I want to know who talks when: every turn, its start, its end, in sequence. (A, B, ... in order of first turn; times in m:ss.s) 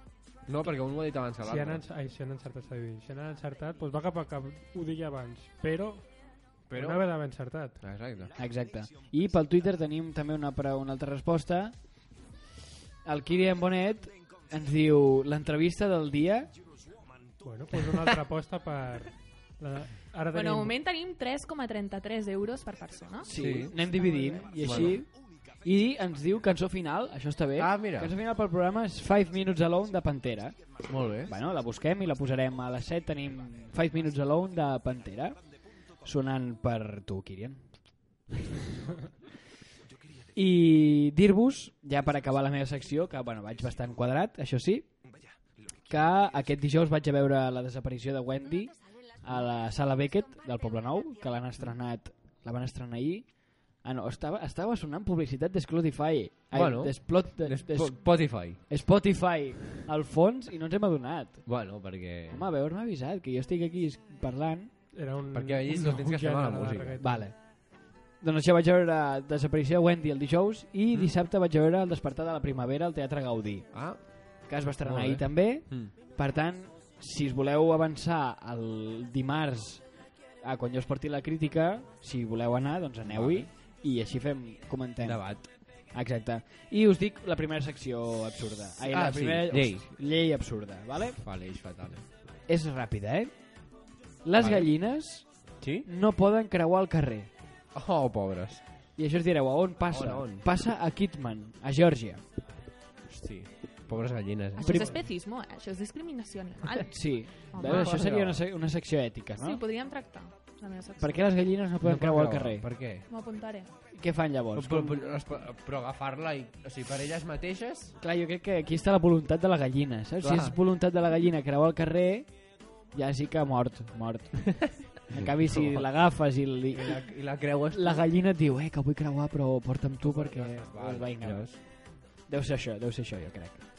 0:00.4-0:01.8 A
0:01.4-0:07.8 B
0:06.7-0:07.1 A
0:07.8-0:08.3 A
0:08.3-0:12.0 C
0:13.0-0:16.5 C
0:17.4-0:20.8 B
0:20.3-0:23.3 D
0:23.2-0:30.6 C
0:23.4-0:23.8 A
0:24.6-0:25.0 A
0:27.6-0:28.1 A
0:30.9-0:31.3 A
0:31.1-0:37.9 C
0:40.3-0:45.1 C
0:45.8-1:04.7 C
0:56.5-0:58.6 A
1:01.4-1:02.4 A
1:04.9-1:07.2 B
1:05.3-1:07.0 A
1:07.0-1:31.2 C
1:13.7-1:15.9 A
1:23.0-1:23.5 A
1:25.0-1:25.5 A
1:28.8-1:29.8 A
1:31.2-1:32.0 A
1:32.5-1:37.3 C
1:34.4-1:35.0 A
1:35.6-1:35.9 A
1:37.7-1:38.7 A
1:38.9-1:42.2 C
1:39.9-1:40.4 A
1:43.1-1:44.8 A
1:44.6-1:48.0 D
1:44.6-1:44.9 C
1:46.9-1:49.6 C
1:47.6-1:48.4 A
1:49.4-1:51.2 D
1:51.0-1:52.7 C
1:51.8-1:53.1 A
1:53.0-1:53.7 D
1:53.9-1:55.0 C
1:54.5-1:58.0 A
1:58.0-2:13.6 C
2:00.2-2:00.6 A
2:05.1-2:06.1 A
2:06.7-2:08.1 A
2:10.0-2:11.6 A